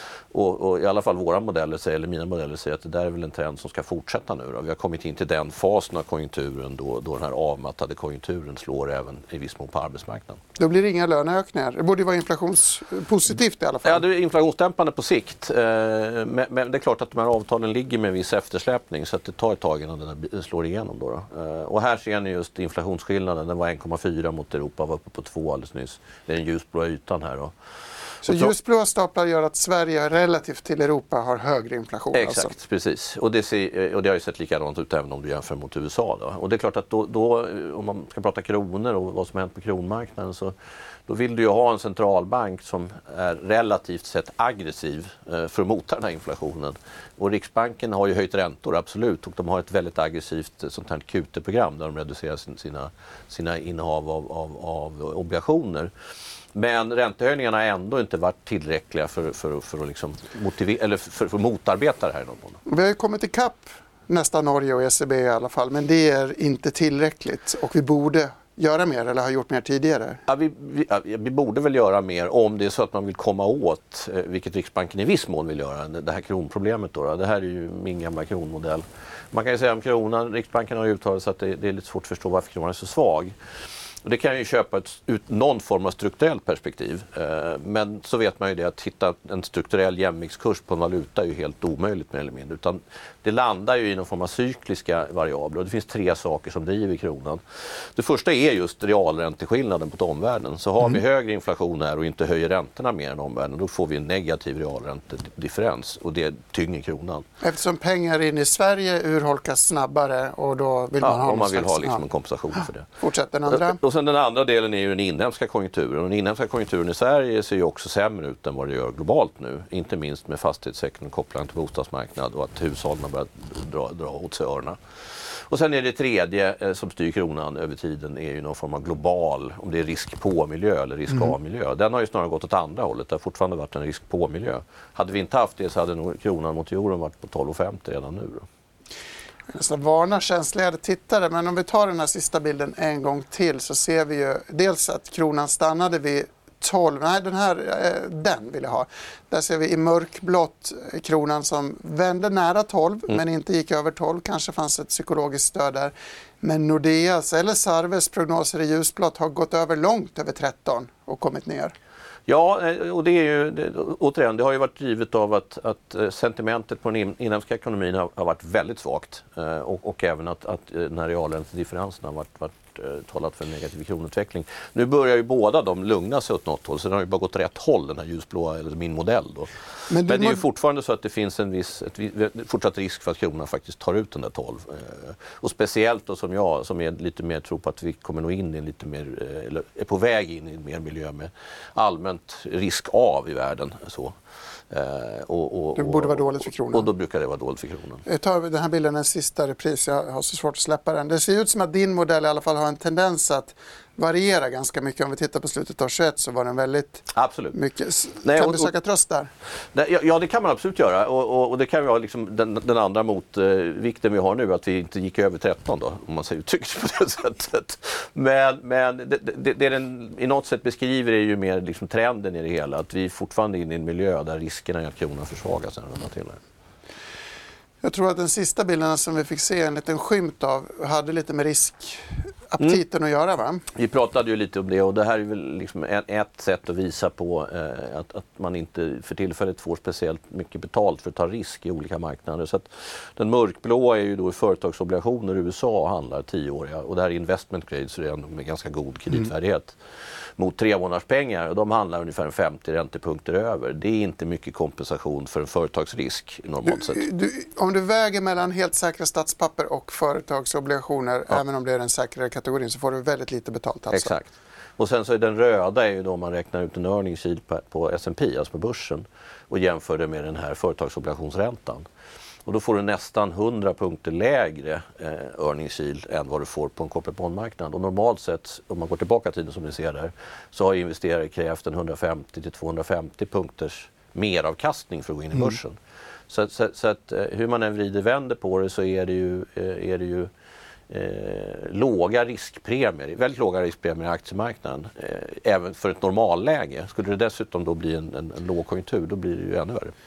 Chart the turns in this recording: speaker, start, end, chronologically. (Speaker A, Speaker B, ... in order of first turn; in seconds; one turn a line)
Speaker A: 0.3-10.4
Speaker B: 10.6-14.0
Speaker A: 13.8-27.5
Speaker B: 28.2-32.5
Speaker A: 28.2-28.5
Speaker A: 32.1-40.5
Speaker A: 41.1-55.9
Speaker A: 56.5-62.6
Speaker B: 62.7-70.2
Speaker A: 70.3-83.3
Speaker A: 84.0-97.4
Speaker A: 97.9-107.2
Speaker B: 107.4-112.0
Speaker A: 111.0-112.9
Speaker B: 113.0-113.8
Speaker A: 113.5-138.4
Speaker B: 139.5-161.7
Speaker A: 162.3-179.5
Speaker B: 179.9-180.4
Speaker A: 180.0-194.2
Speaker A: 194.7-198.0
Speaker B: 195.8-196.9
Speaker B: 198.1-209.3
Speaker A: 207.1-207.6
Speaker A: 208.2-208.7
Speaker A: 209.7-226.4
Speaker B: 227.8-233.6
Speaker A: 233.7-249.8
Speaker A: 250.4-257.0
Speaker B: 256.6-264.1
Speaker A: 263.9-271.9
Speaker A: 272.4-285.8
Speaker A: 286.3-290.3
Speaker A: 290.9-299.9